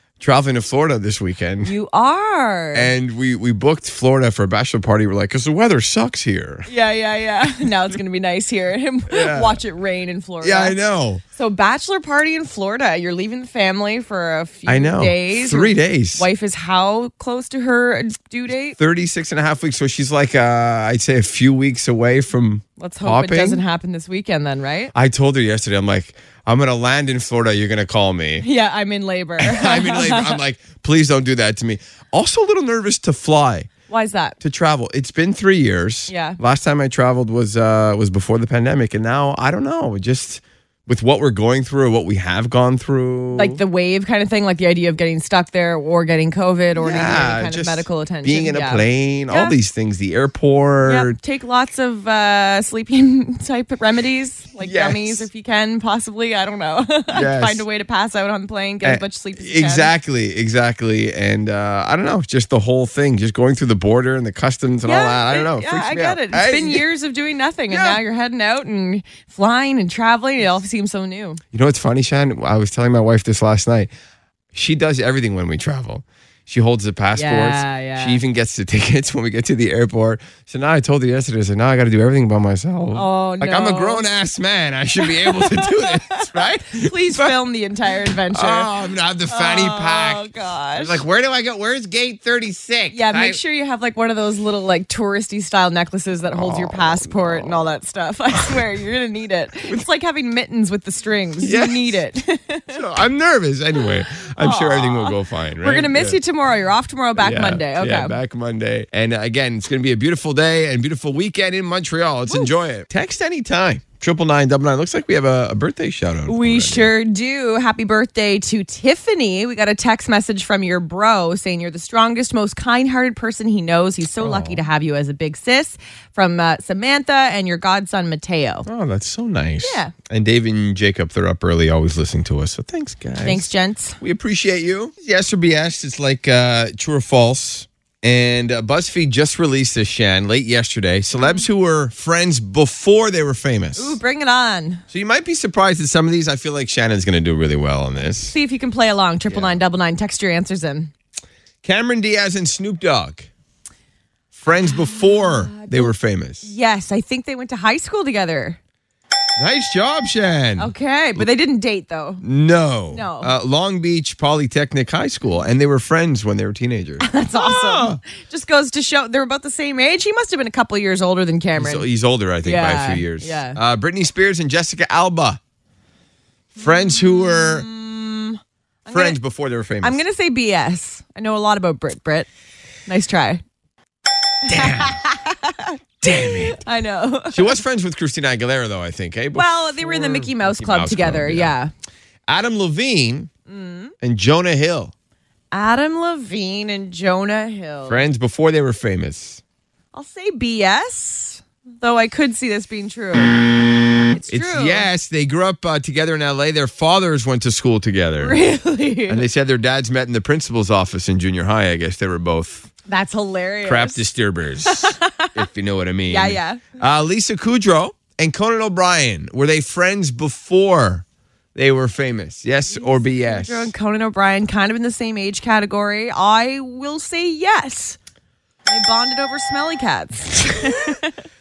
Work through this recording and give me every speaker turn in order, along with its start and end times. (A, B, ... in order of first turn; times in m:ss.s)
0:00.2-0:01.7 A
0:01.6-0:02.9 B
0:02.7-0:06.7 A
0:06.7-0:10.8 B
0:09.1-0:09.6 A
0:10.4-0:11.2 A
0:11.4-0:18.8 B
0:14.6-0:16.3 A
0:18.8-0:23.6 A
0:22.8-0:24.9 B
0:24.9-0:28.5 A
0:28.4-0:30.4 B
0:29.4-0:33.7 A
0:33.9-0:34.4 B
0:34.4-0:43.6 A
0:36.1-0:36.4 B
0:43.3-0:49.6 B
0:46.8-0:51.2 A
0:50.9-0:59.9 B
0:54.6-0:55.3 A
0:57.1-0:57.6 A
0:58.8-1:06.8 A
1:04.8-1:11.4 B
1:07.7-1:08.0 A
1:11.5-1:13.9 A
1:14.5-1:27.4 A
1:17.2-1:18.2 B
1:23.0-1:24.1 B
1:25.0-1:28.7 B
1:28.3-1:33.4 A
1:29.3-1:31.0 B
1:32.9-1:42.8 B
1:36.3-1:37.6 A
1:41.4-1:42.0 A
1:42.7-1:46.2 A
1:44.4-1:48.2 B
1:47.2-1:56.9 A
1:52.3-1:52.5 B
1:56.3-2:08.7 B
2:04.2-2:04.6 A
2:08.7-2:24.0 A
2:09.6-2:09.9 B
2:13.2-2:14.0 B
2:21.2-2:21.4 B
2:23.8-2:24.8 B
2:24.9-2:28.3 A
2:28.3-2:30.9 B
2:29.3-2:29.6 A
2:31.6-2:33.3 A
2:34.3-2:36.5 A
2:34.6-2:38.6 B
2:39.4-2:41.3 A
2:40.6-2:42.2 B
2:42.2-2:48.0 A
2:42.9-2:43.3 B
2:47.0-2:51.9 B
2:51.6-2:55.4 A
2:52.4-2:53.6 B
2:56.6-2:57.7 A
2:56.6-2:59.2 B
2:58.9-3:00.0 A
2:59.8-3:02.3 B
3:02.9-3:03.4 B
3:04.5-3:05.0 A
3:04.5-3:07.6 B
3:06.0-3:06.6 A
3:07.3-3:11.5 A
3:09.3-3:11.7 B
3:12.3-3:13.3 A
3:13.5-3:13.9 B
3:14.0-3:14.9 A
3:15.5-3:18.0 B
3:17.9-3:19.4 A
3:19.9-3:23.4 B
3:24.1-3:24.9 B
3:24.3-3:28.4 A
3:28.2-3:29.2 B
3:29.1-3:32.7 A
3:32.9-3:34.0 B
3:33.6-3:43.7 A
3:34.7-3:35.3 B
3:36.1-3:36.6 B
3:42.7-3:48.0 B
3:48.7-3:51.1 B